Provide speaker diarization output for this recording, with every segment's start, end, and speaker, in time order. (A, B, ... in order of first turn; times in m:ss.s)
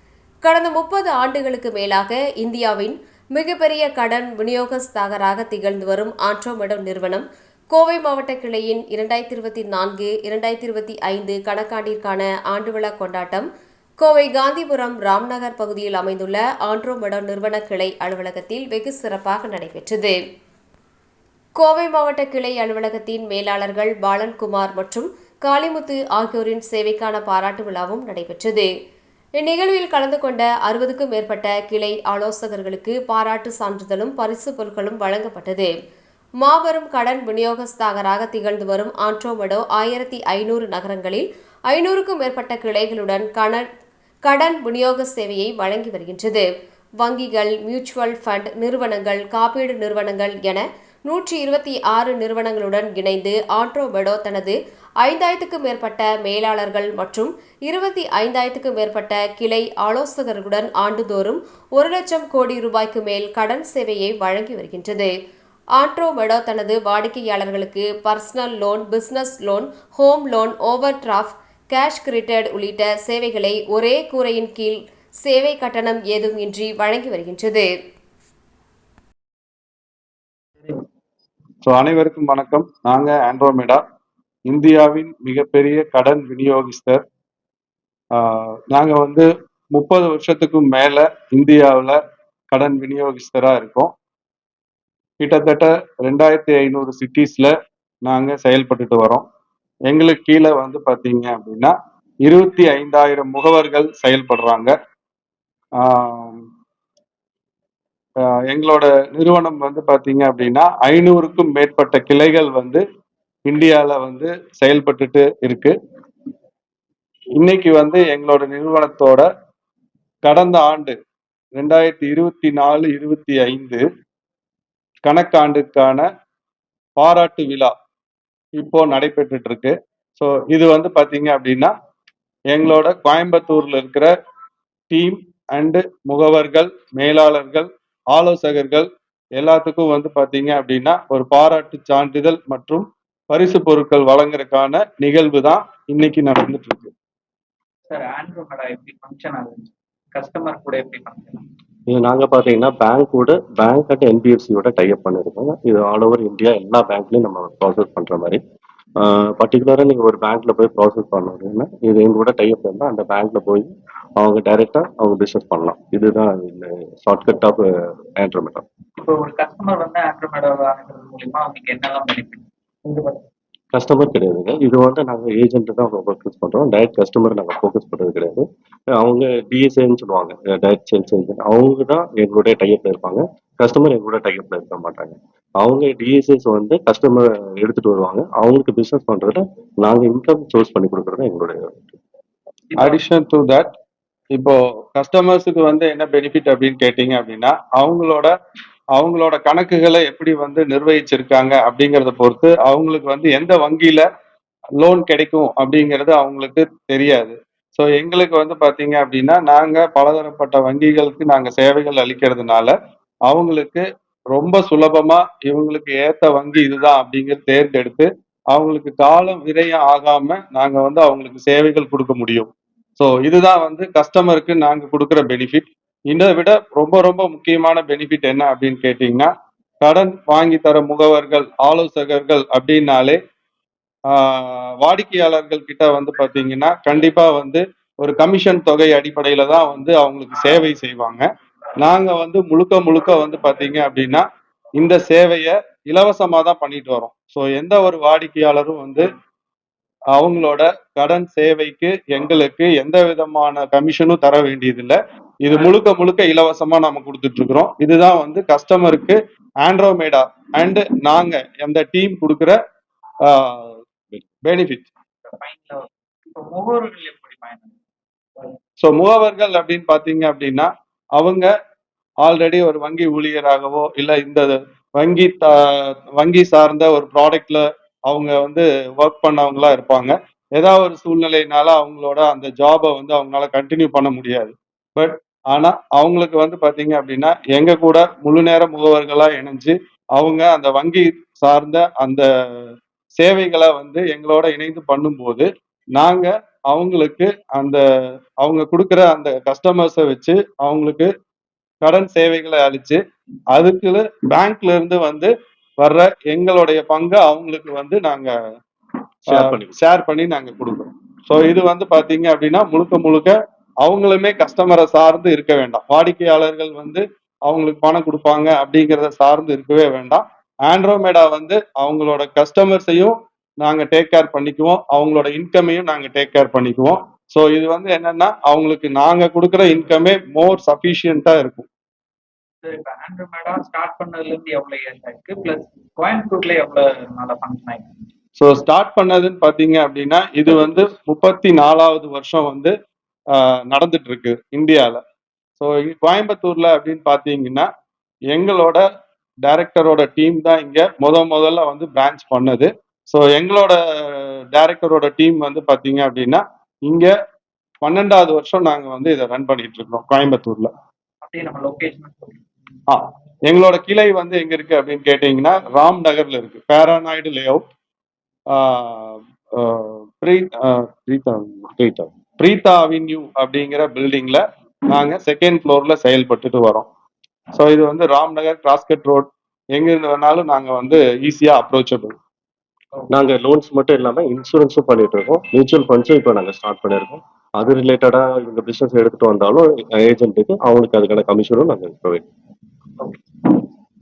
0:00.4-0:13.5 A
0:14.0-0:20.2 A
0:21.6-0:28.7 A
0:29.4-0:35.7 A
0:36.4-0:43.6 A
0:44.2-0:46.5 A
0:47.0-1:05.1 A
1:05.8-1:17.7 A
1:21.6-1:23.8 B
1:24.5-1:27.0 B
1:28.1-1:32.0 B
1:32.5-1:33.9 B
1:35.2-1:37.5 B
1:38.0-1:39.2 B
1:39.9-1:44.7 B
1:45.8-1:46.4 B
1:48.2-1:52.8 B
1:53.5-1:55.8 B
1:57.4-1:59.3 B
2:00.2-2:01.0 B
2:01.6-2:03.8 B
2:05.0-2:06.1 B
2:07.0-2:07.7 B
2:08.6-2:11.7 B
2:12.5-2:14.1 B
2:14.9-2:26.9 B
2:27.9-2:31.5 C
2:31.9-2:38.4 D
2:39.0-2:48.6 D
2:49.0-2:53.2 C
2:53.7-3:12.0 D
3:12.7-3:13.0 C
3:12.8-3:13.7 B
3:14.3-3:18.3 B
3:19.0-3:24.1 B
3:24.8-3:32.8 B
3:33.3-3:49.3 B
3:49.8-3:53.2 B
3:54.1-4:01.2 B
4:01.8-4:04.3 B
4:04.8-4:09.1 B
4:10.2-4:22.6 B
4:23.3-4:23.8 B
4:24.4-4:24.9 B
4:25.2-4:27.8 C
4:28.8-4:31.5 B
4:32.2-4:57.8 B
4:58.4-5:01.1 B
5:01.8-5:03.0 B
5:03.5-5:08.4 B
5:09.3-5:09.7 D
5:09.3-5:31.7 B
5:32.6-5:38.0 C
5:38.4-5:42.7 B
5:43.3-5:45.0 B
5:45.6-5:47.7 B
5:48.3-5:48.8 B
5:49.4-5:57.1 B
5:57.8-6:00.7 B
6:01.2-6:02.4 C
6:02.9-6:07.6 B
6:08.5-6:11.7 B
6:11.8-6:12.1 D
6:12.4-6:16.9 B
6:17.5-6:22.2 B
6:23.1-6:32.2 D
6:33.0-6:33.7 C